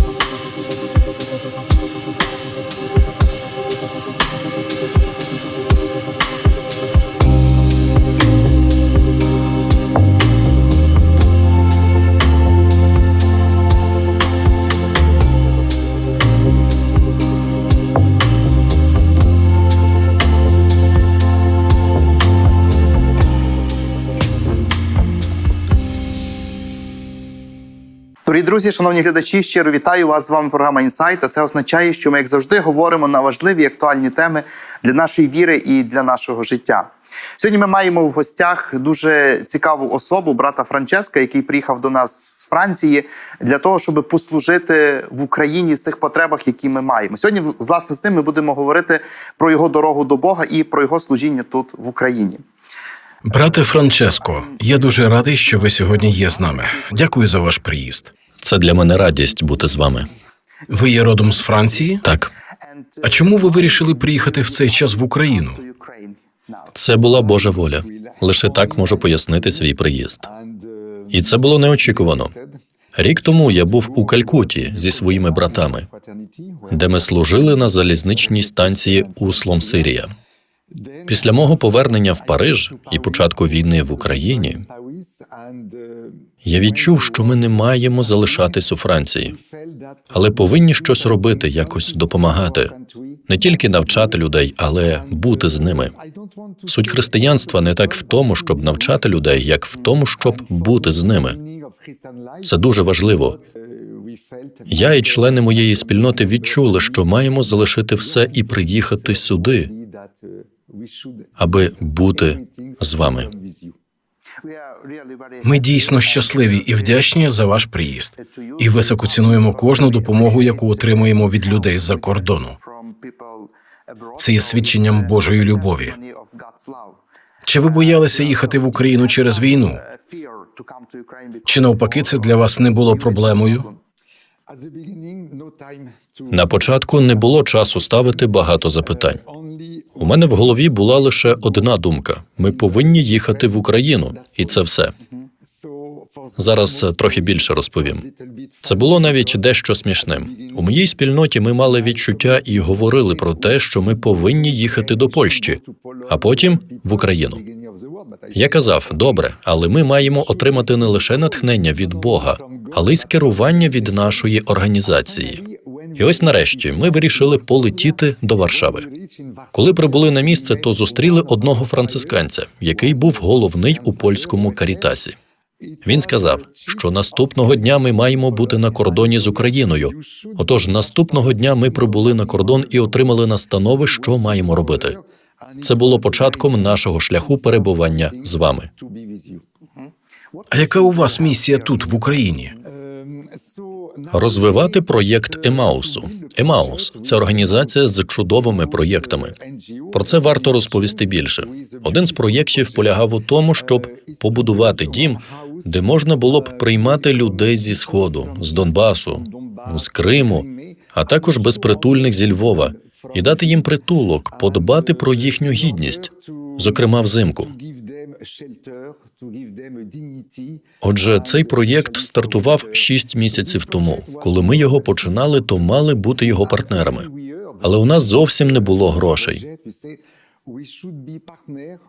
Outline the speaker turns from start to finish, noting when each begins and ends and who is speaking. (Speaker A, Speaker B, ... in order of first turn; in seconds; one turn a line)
Speaker A: 28.2-52.4
Speaker B: 53.2-58.1
Speaker A: 56.0-57.0
Speaker C: 58.4-60.1
Speaker B: 60.7-62.0
Speaker C: 62.0-62.3
Speaker A: 62.6-63.3
Speaker B: 63.0-65.6
Speaker A: 65.6-66.2
Speaker C: 66.7-70.2
Speaker C: 71.1-72.3
Speaker C: 73.0-75.9
Speaker C: 76.7-80.1
Speaker C: 81.1-84.7
Speaker C: 86.4-89.4
Speaker C: 90.1-92.7
Speaker C: 93.3-95.9
Speaker C: 96.7-101.4
Speaker C: 102.4-103.4
Speaker C: 104.7-109.7
Speaker C: 111.4-113.3
Speaker A: 114.4-116.0
Speaker B: 115.4-122.5
Speaker A: 122.5-127.0
Speaker B: 124.2-126.0
Speaker B: 127.4-129.8
Speaker A: 129.2-131.7
Speaker B: 131.4-133.7
Speaker C: 136.3-139.2
Speaker C: 140.0-144.9
Speaker C: 146.3-148.1
Speaker C: 148.6-157.4
Speaker C: 158.3-165.4
Speaker C: 165.9-168.9
Speaker C: 169.5-175.2
Speaker C: 175.8-185.0
Speaker C: 185.6-188.7
Speaker A: 189.7-190.4
Speaker B: 190.5-192.6
Speaker C: 194.1-199.3
Speaker C: 199.9-217.5
Speaker C: 220.8-227.1
Speaker C: 227.6-229.4